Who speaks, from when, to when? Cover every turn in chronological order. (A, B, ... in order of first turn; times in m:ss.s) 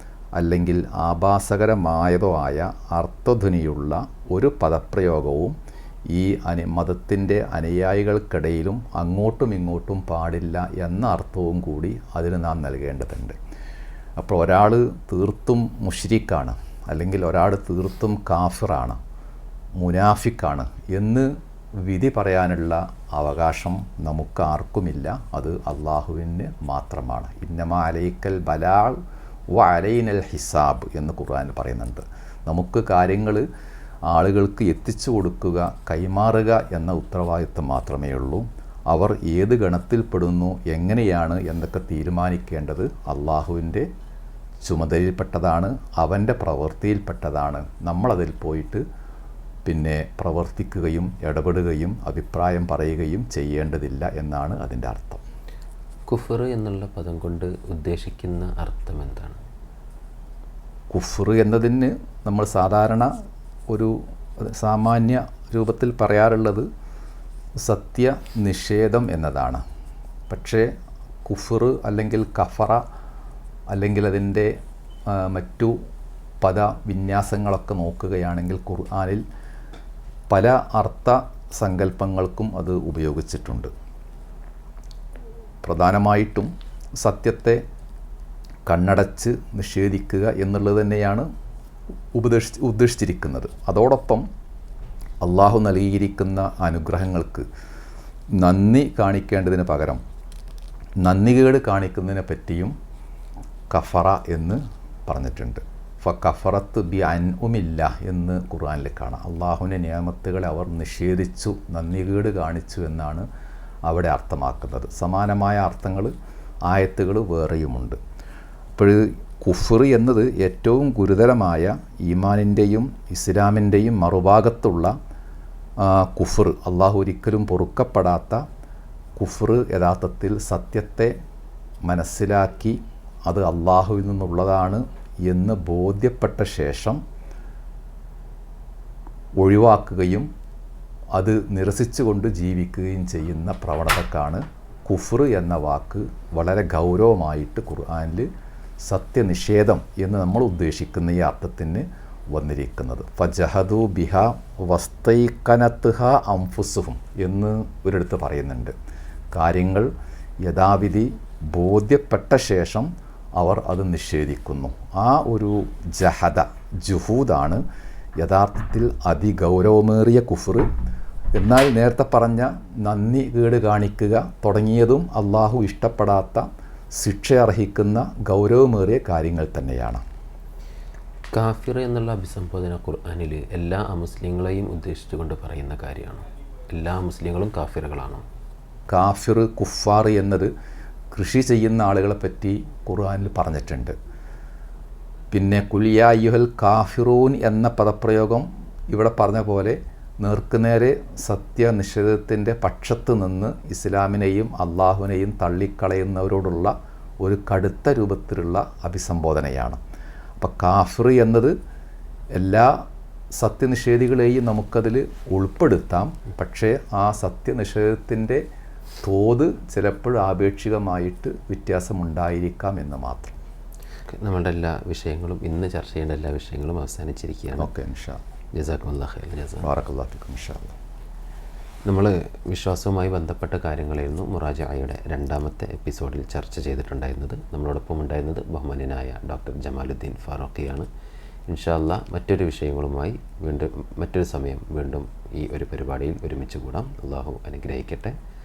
0:00.4-0:05.6 A
0:06.1-0:13.4 A
0:14.2-0:19.0 A
0:19.8-0:29.0 A
0:29.5-0:33.5 A
0:34.1-0:43.9 A
0:44.6-0:48.8 A
0:49.7-0:55.2 A
0:56.1-0:59.4 B
1:00.9-1:03.1 A
1:03.7-1:06.7 A
1:07.6-1:09.6 A
1:10.3-1:10.7 A
1:11.2-1:12.8 A
1:13.7-1:14.5 A
1:15.1-1:15.8 A
1:16.4-1:19.2 A
1:20.3-1:23.7 A
1:25.6-1:27.6 A
1:28.7-1:31.3 A
1:32.2-1:34.2 A
1:35.2-1:37.5 A
1:38.4-1:40.0 A
1:41.0-1:42.8 A
1:43.7-1:53.3 A
1:53.9-1:56.1 A
1:56.7-1:58.0 A
1:58.8-2:04.9 A
2:05.8-2:08.4 A
2:09.2-2:11.1 A
2:11.8-2:17.0 A
2:19.4-2:20.3 A
2:21.1-2:28.3 A
2:28.8-2:38.7 A
2:39.3-2:39.9 A
2:40.4-2:47.6 A
2:48.2-2:50.7 A
2:51.4-3:00.0 A
3:01.3-3:08.2 B
3:08.9-3:10.5 A
3:11.1-3:14.0 A
3:15.3-3:29.8 A
3:30.4-3:31.5 A
3:32.4-3:32.8 A
3:33.4-3:38.4 A
3:39.0-3:43.4 A
3:44.1-3:47.7 B
3:47.6-3:48.2 A
3:48.6-3:49.7 B
3:49.6-3:50.8 A
3:51.9-4:00.9 B
4:01.5-4:08.2 B